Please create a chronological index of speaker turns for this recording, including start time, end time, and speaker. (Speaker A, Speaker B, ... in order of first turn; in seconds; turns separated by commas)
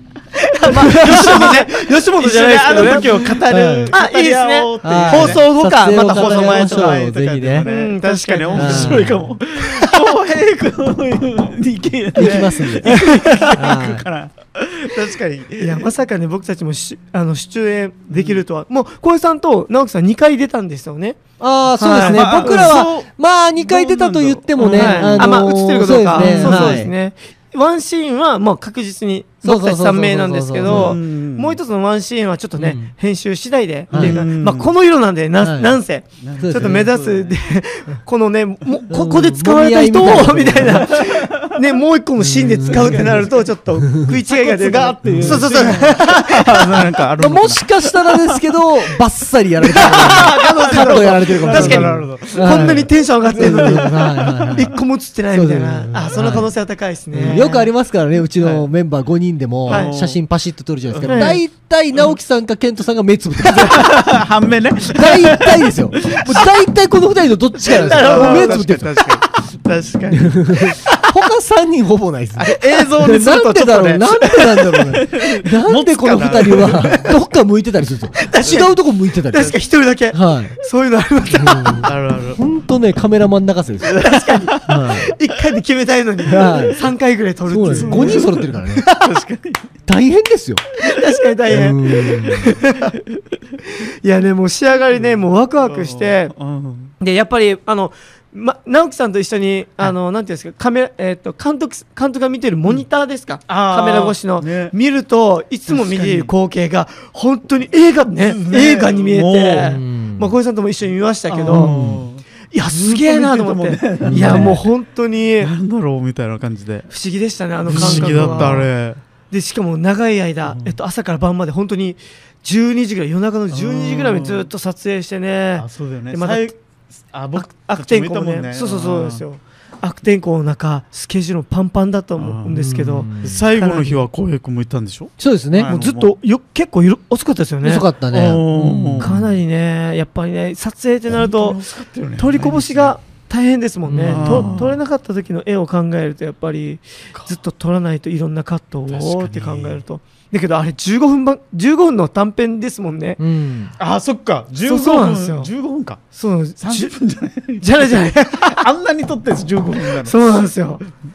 Speaker A: 0.4-7.0, Speaker B: 0.7-15.9, Speaker C: 0.7-1.4, Speaker C: 3.1-3.9, Speaker C: 4.8-7.7, Speaker A: 7.6-9.9, Speaker C: 8.5-9.2, Speaker C: 12.2-14.0, Speaker A: 12.2-13.6, Speaker A: 15.6-21.2, Speaker B: 18.1-18.4, Speaker C: 21.4-26.9, Speaker A: 21.8-22.8, Speaker B: 21.9-25.4, Speaker A: 24.6-46.9, Speaker B: 26.1-26.8, Speaker C: 29.4-30.9, Speaker B: 30.6-31.6, Speaker C: 32.6-32.9, Speaker C: 33.9-34.2, Speaker B: 33.9-34.7, Speaker C: 35.4-35.8, Speaker B: 36.2-37.4, Speaker C: 36.4-36.9, Speaker C: 38.9-40.9, Speaker B: 40.6-41.6, Speaker C: 42.3-43.2, Speaker B: 42.5-43.4, Speaker C: 43.8-44.1, Speaker B: 44.2-48.4, Speaker C: 45.0-46.0, Speaker C: 47.2-54.7, Speaker B: 49.7-54.5, Speaker A: 49.7-57.7, Speaker C: 55.3-56.5, Speaker C: 57.1-64.2, Speaker A: 59.7-59.9, Speaker B: 59.7-60.2, Speaker B: 60.9-61.4, Speaker A: 61.0-61.4, Speaker B: 63.5-66.5, Speaker C: 64.9-69.0, Speaker B: 67.6-71.0, Speaker A: 67.6-69.1, Speaker C: 70.1-79.5, Speaker B: 72.3-77.2, Speaker A: 76.2-77.1, Speaker A: 78.2-81.9, Speaker B: 78.3-78.7, Speaker B: 79.3-79.6, Speaker C: 80.1-80.6, Speaker C: 81.4-84.0, Speaker B: 81.8-82.4, Speaker A: 83.8-88.3, Speaker B: 83.9-84.7, Speaker C: 84.6-85.1, Speaker C: 86.2-86.8, Speaker C: 87.5-88.8, Speaker B: 87.7-89.7, Speaker C: 89.8-90.6, Speaker A: 90.8-93.0, Speaker C: 91.5-92.5, Speaker A: 93.8-96.3, Speaker B: 95.6-96.9, Speaker A: 97.0-111.7, Speaker B: 103.5-104.7, Speaker B: 105.7-106.3, Speaker B: 108.2-109.7, Speaker C: 109.6-110.3, Speaker B: 111.3-114.6, Speaker C: 111.5-112.0, Speaker A: 112.5-115.5, Speaker C: 114.0-114.6, Speaker B: 115.4-116.9, Speaker A: 116.9-118.7, Speaker B: 117.6-119.0, Speaker C: 117.7-118.6, Speaker A: 119.3-126.5, Speaker B: 120.4-120.8, Speaker B: 123.5-124.5, Speaker B: 125.6-126.5, Speaker B: 127.1-129.2, Speaker A: 127.3-134.0, Speaker B: 132.2-132.6, Speaker C: 132.6-133.4, Speaker B: 133.2-136.1, Speaker C: 135.2-135.7, Speaker A: 135.7-137.9, Speaker C: 137.6-139.3, Speaker B: 138.1-139.1, Speaker A: 139.0-141.6, Speaker B: 141.1-142.9, Speaker A: 142.2-153.2, Speaker C: 143.8-144.6, Speaker B: 144.1-144.8, Speaker B: 148.9-149.8, Speaker C: 153.2-153.7, Speaker B: 153.8-156.0, Speaker A: 154.6-155.5, Speaker A: 156.2-156.9, Speaker B: 156.6-160.3, Speaker A: 157.6-158.7, Speaker A: 159.8-160.8